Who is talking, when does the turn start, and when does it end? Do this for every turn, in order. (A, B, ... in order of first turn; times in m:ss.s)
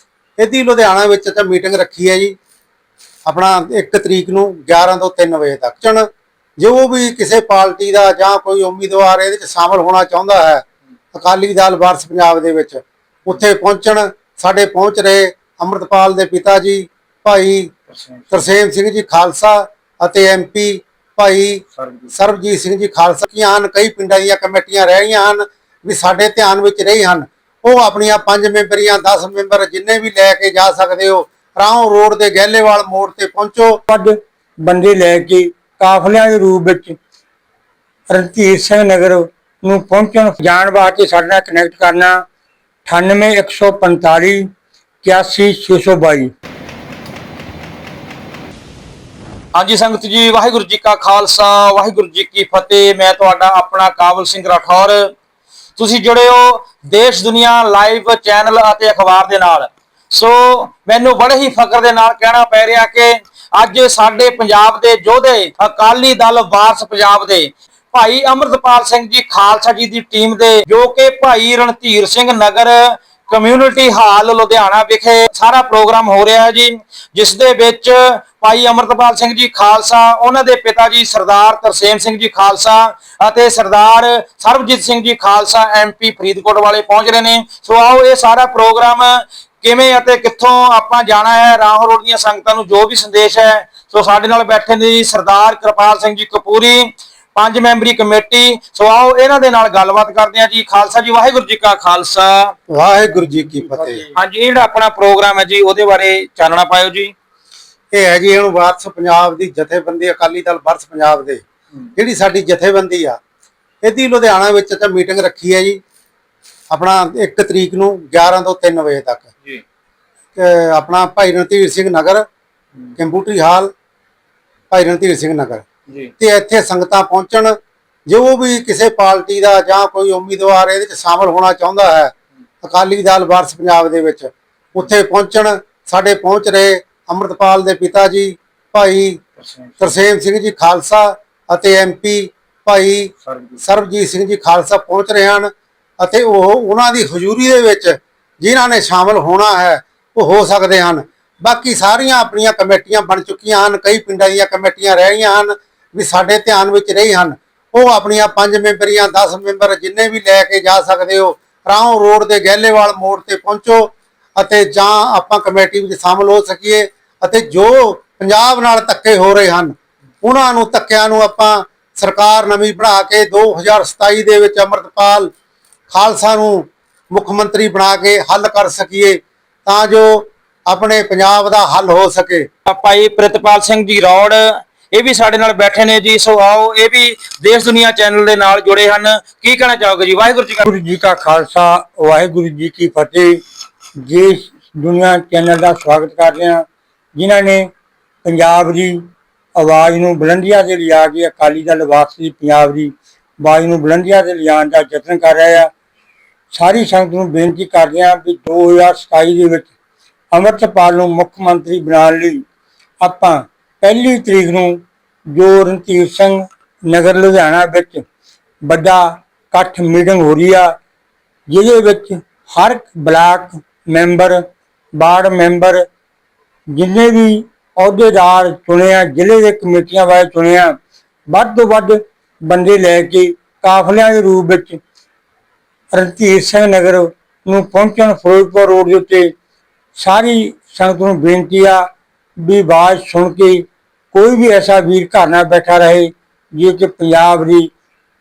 0:00.4-0:02.3 A
0:03.3-0:06.0 A
0:06.6-0:17.7 A
0:17.9-0:18.4 B
0:18.3-0:33.8 A
0:21.8-0:22.1 B
0:33.9-0:37.0 C
0:38.1-0:42.2 C
0:42.9-0:44.5 C
0:45.0-0:46.3 C
0:49.6-0:55.1 B
0:55.8-1:42.6 B
1:42.7-1:44.0 A
1:44.2-1:47.1 B
1:47.9-1:51.4 A
1:52.0-1:53.2 A
1:53.8-1:55.8 A
1:56.7-1:59.3 A
2:00.4-2:02.2 A
2:03.0-2:03.7 A
2:04.7-2:05.7 A
2:06.2-2:07.5 A
2:08.1-2:19.2 A
2:19.4-2:20.0 B
2:19.8-2:55.3 A
2:23.3-2:23.6 B
2:55.9-3:02.5 A
3:02.7-3:10.7 B
3:10.7-3:13.4 C
3:14.0-3:16.6 C
3:17.2-3:17.7 C
3:18.2-3:19.0 C
3:19.6-3:25.7 C
3:26.5-3:29.7 C
3:30.3-3:32.4 C
3:33.0-3:38.0 C
3:38.7-3:40.7 C
3:41.5-3:44.4 C
3:45.0-3:45.8 C
3:46.7-3:50.8 C
3:51.3-3:54.8 C
3:55.9-3:59.3 C
4:00.0-4:01.8 C
4:02.4-4:07.7 C